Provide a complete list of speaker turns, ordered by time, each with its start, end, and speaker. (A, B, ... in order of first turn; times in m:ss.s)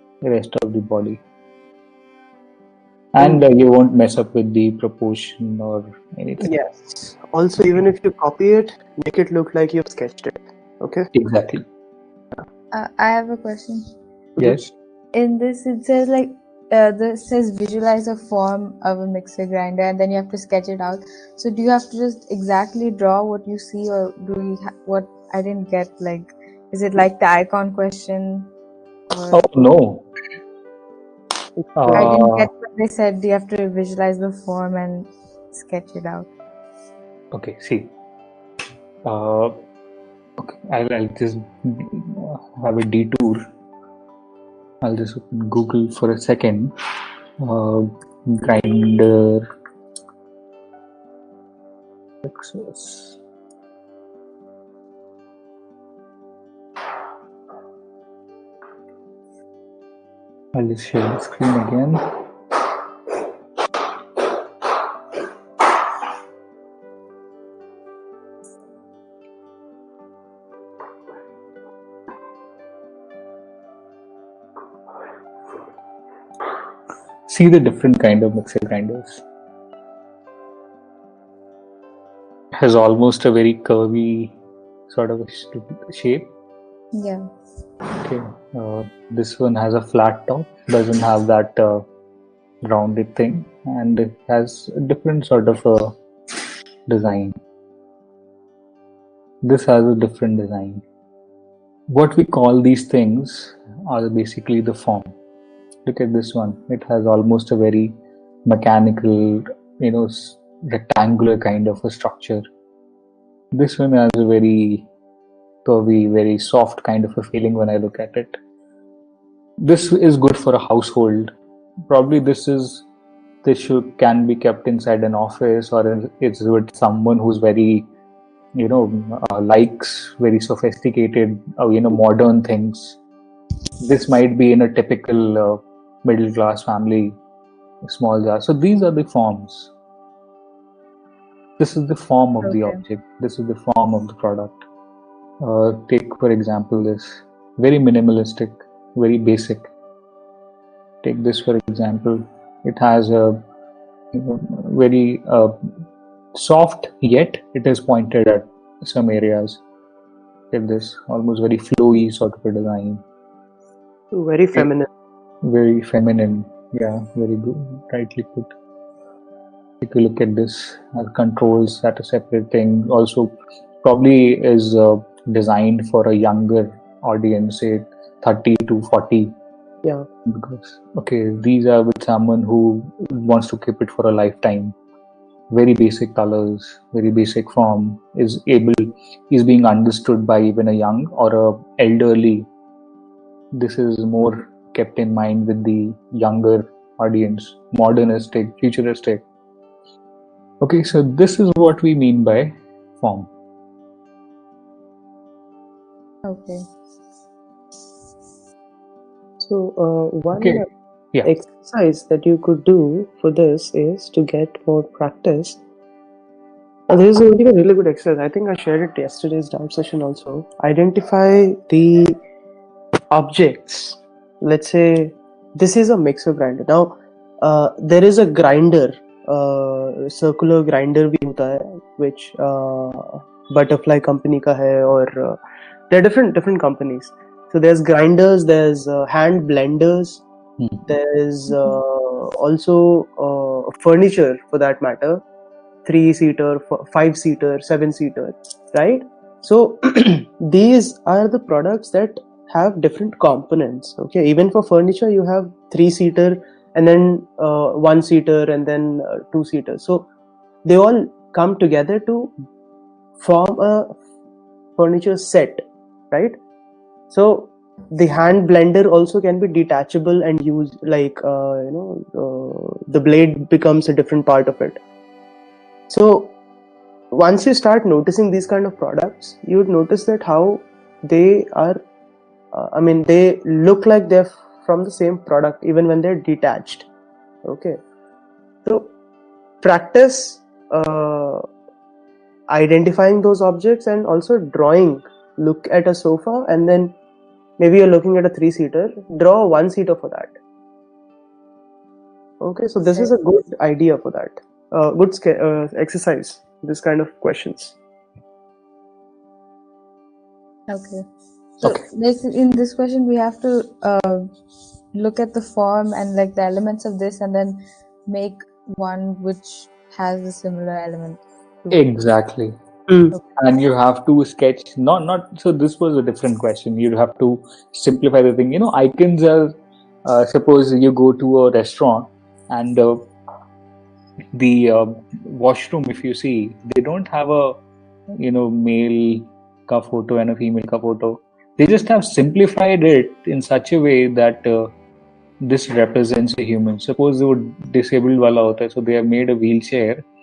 0:00.2-0:01.2 A
0:03.1-0:06.5 A
0:06.4-0:11.1 B
0:11.1-0:11.6 A
0:12.7-0:13.9 C
0:14.4-0:14.7 A
0:15.1-0:28.5 C
0:29.1-0:29.5 C
0:29.3-0:30.1 A
0:31.8-0:32.5 A
0:31.9-0:36.3 C
0:37.3-0:37.9 A
0:39.0-0:39.6 A
0:40.4-0:43.4 A
0:44.8-0:46.7 A
0:47.4-0:49.5 A
0:52.2-0:53.2 A
1:00.5-1:02.0 A
1:17.3-1:19.2 A
1:22.6-1:24.4 A
1:24.9-1:26.3 A
1:26.9-1:27.2 C
1:28.0-1:31.8 A
1:32.6-1:35.9 A
1:36.9-1:37.3 A
1:39.4-1:40.8 A
1:41.9-1:45.1 A
1:45.9-1:47.9 A
1:48.5-1:52.4 A
1:53.5-1:54.9 A
1:55.6-1:58.4 A
1:59.6-2:01.3 A
2:01.9-2:02.9 A
2:03.4-2:07.9 A
2:08.6-2:13.0 A
2:13.8-2:17.2 A
2:17.8-2:19.7 A
2:21.6-2:24.6 A
2:22.4-2:22.8 C
2:25.4-2:29.7 A
2:31.0-2:33.4 A
2:34.1-2:35.5 A
2:36.4-2:39.6 A
2:40.5-2:43.0 A
2:44.1-2:44.9 B
2:45.4-2:48.5 A
2:49.8-2:53.3 A
2:53.8-2:59.3 A
3:00.3-3:04.7 A
3:05.5-3:12.5 A
3:13.5-3:19.2 A
3:20.6-3:23.3 A
3:26.2-3:26.6 C
3:29.4-3:30.7 B
3:30.4-3:30.6 A
3:31.2-3:35.6 B
3:36.9-3:42.2 B
3:43.1-3:55.4 B
3:55.9-4:00.2 B
4:00.6-4:00.8 A
4:00.9-4:05.2 B
4:05.8-4:20.1 B
4:20.6-4:22.3 B
4:23.2-4:24.0 B
4:24.8-4:26.4 B
4:27.1-4:34.8 B
4:35.9-4:36.4 B
4:37.1-4:41.8 B
4:42.5-4:46.9 B
4:47.4-4:47.8 B
4:48.6-4:48.9 B
4:49.6-4:51.5 B
4:52.5-4:57.0 B
4:57.6-5:00.4 B
5:02.4-5:07.8 B
5:10.7-5:11.0 C
5:11.6-5:14.3 C
5:14.9-5:21.2 C
5:21.7-5:22.5 A
5:22.9-5:23.2 B
5:23.4-5:29.5 A
5:30.0-5:33.1 A
5:34.3-5:37.6 A
5:38.2-5:44.7 A
5:45.4-5:50.0 A